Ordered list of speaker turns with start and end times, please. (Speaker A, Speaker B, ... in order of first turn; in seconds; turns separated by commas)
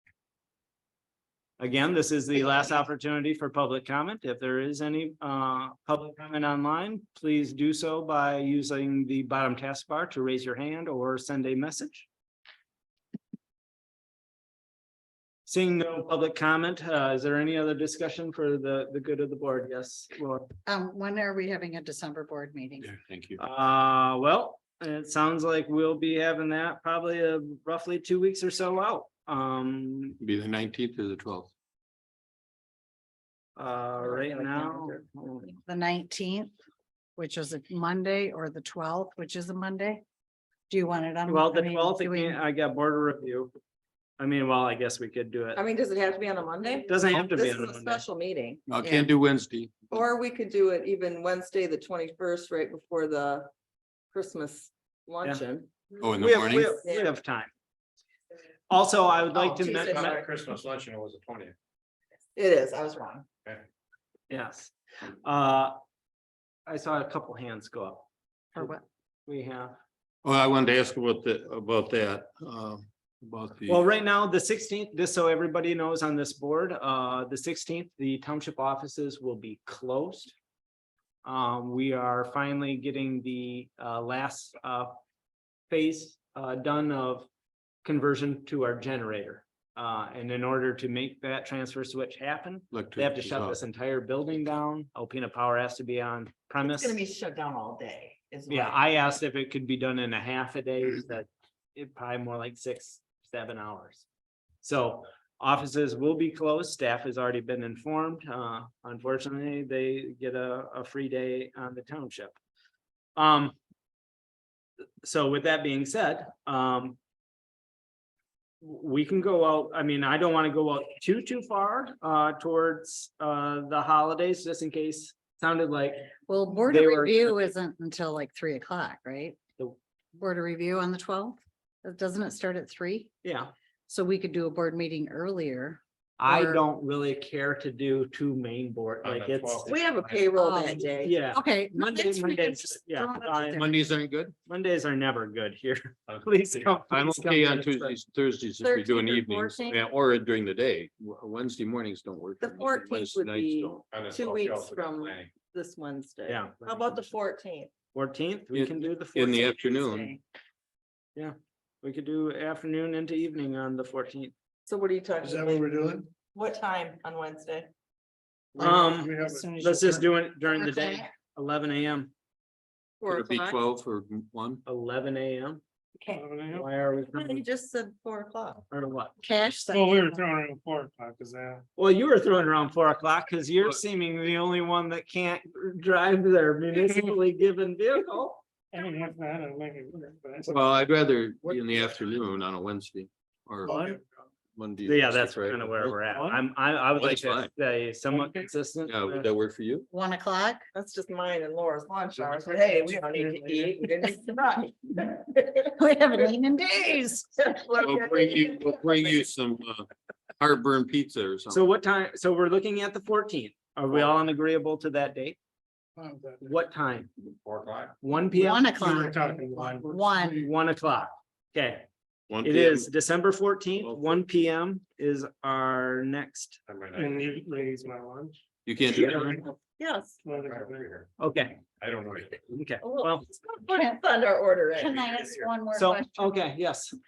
Speaker A: 1.6-12.1, Speaker A: 15.5-20.5, Speaker B: 20.7-22.9, Speaker C: 22.8-23.4, Speaker A: 23.4-30.2, Speaker C: 30.2-31.5, Speaker A: 33.5-35.5, Speaker D: 34.0-35.0, Speaker B: 35.5-36.5, Speaker B: 37.2-40.0, Speaker B: 40.7-42.4, Speaker A: 41.3-43.5, Speaker A: 44.2-45.6, Speaker D: 45.5-48.6, Speaker A: 46.9-48.0, Speaker C: 48.7-49.7, Speaker B: 48.8-49.1, Speaker D: 49.9-53.5, Speaker D: 54.1-57.1, Speaker C: 56.0-56.7, Speaker A: 56.2-57.5, Speaker A: 58.7-60.2, Speaker E: 59.3-61.5, Speaker D: 59.4-60.3, Speaker D: 62.4-63.2, Speaker A: 64.3-65.8, Speaker A: 66.7-68.8, Speaker B: 68.5-68.8, Speaker A: 69.3-69.8, Speaker C: 70.2-73.8, Speaker A: 73.7-80.3, Speaker A: 81.2-85.0, Speaker A: 85.7-87.3, Speaker A: 87.8-97.0, Speaker C: 92.7-93.6, Speaker D: 96.6-98.8, Speaker A: 98.5-104.0, Speaker A: 104.6-112.4, Speaker A: 113.2-113.6, Speaker A: 115.0-117.0, Speaker A: 118.6-126.1, Speaker B: 126.3-129.4, Speaker A: 126.7-127.5, Speaker B: 130.1-133.1, Speaker A: 133.2-133.5, Speaker B: 133.9-136.6, Speaker A: 136.2-139.8, Speaker E: 139.0-140.3, Speaker D: 139.7-141.2, Speaker B: 140.3-143.7, Speaker A: 141.0-143.6, Speaker C: 143.5-144.3, Speaker A: 144.4-148.0, Speaker E: 146.1-146.8, Speaker C: 146.9-153.8, Speaker D: 148.6-149.8, Speaker D: 152.4-157.7, Speaker E: 153.9-155.3, Speaker A: 156.3-157.0, Speaker A: 157.9-160.0, Speaker C: 158.5-160.2, Speaker A: 161.2-164.3, Speaker D: 164.7-167.7, Speaker F: 165.2-166.1, Speaker F: 168.6-169.7, Speaker A: 168.6-172.1, Speaker B: 169.2-171.1, Speaker D: 173.0-173.6, Speaker C: 173.1-174.6, Speaker A: 174.6-175.6, Speaker B: 176.0-176.2, Speaker F: 176.1-176.7, Speaker A: 176.5-177.4, Speaker D: 177.1-178.6, Speaker A: 178.7-179.2, Speaker B: 179.2-180.2, Speaker F: 179.7-181.6, Speaker A: 181.8-188.4, Speaker F: 186.8-187.1, Speaker F: 188.7-190.7, Speaker C: 190.4-193.8, Speaker F: 191.5-191.8, Speaker F: 193.6-194.0, Speaker C: 194.5-196.3, Speaker A: 194.8-199.3, Speaker C: 196.9-197.5, Speaker F: 198.1-198.5, Speaker C: 198.8-199.9, Speaker B: 199.9-200.6, Speaker D: 200.7-205.7, Speaker F: 202.2-203.8, Speaker B: 205.7-207.5, Speaker D: 207.4-209.0, Speaker C: 207.8-209.9, Speaker C: 210.4-211.6, Speaker A: 211.5-215.4, Speaker F: 216.0-216.6, Speaker A: 216.4-217.1, Speaker E: 217.4-218.0, Speaker A: 218.0-219.1, Speaker B: 218.3-220.5, Speaker F: 218.7-220.4, Speaker A: 220.3-221.8, Speaker C: 222.3-222.9, Speaker A: 222.4-226.6, Speaker C: 223.8-224.2, Speaker E: 226.7-227.3, Speaker F: 226.9-228.4, Speaker C: 228.7-229.4, Speaker E: 228.9-229.3, Speaker D: 229.7-230.2, Speaker F: 230.2-230.8, Speaker E: 230.3-231.1, Speaker A: 231.2-231.6, Speaker E: 231.8-232.4, Speaker A: 232.5-233.2, Speaker D: 232.8-235.1, Speaker B: 233.7-234.0, Speaker B: 234.7-236.4, Speaker A: 235.7-236.9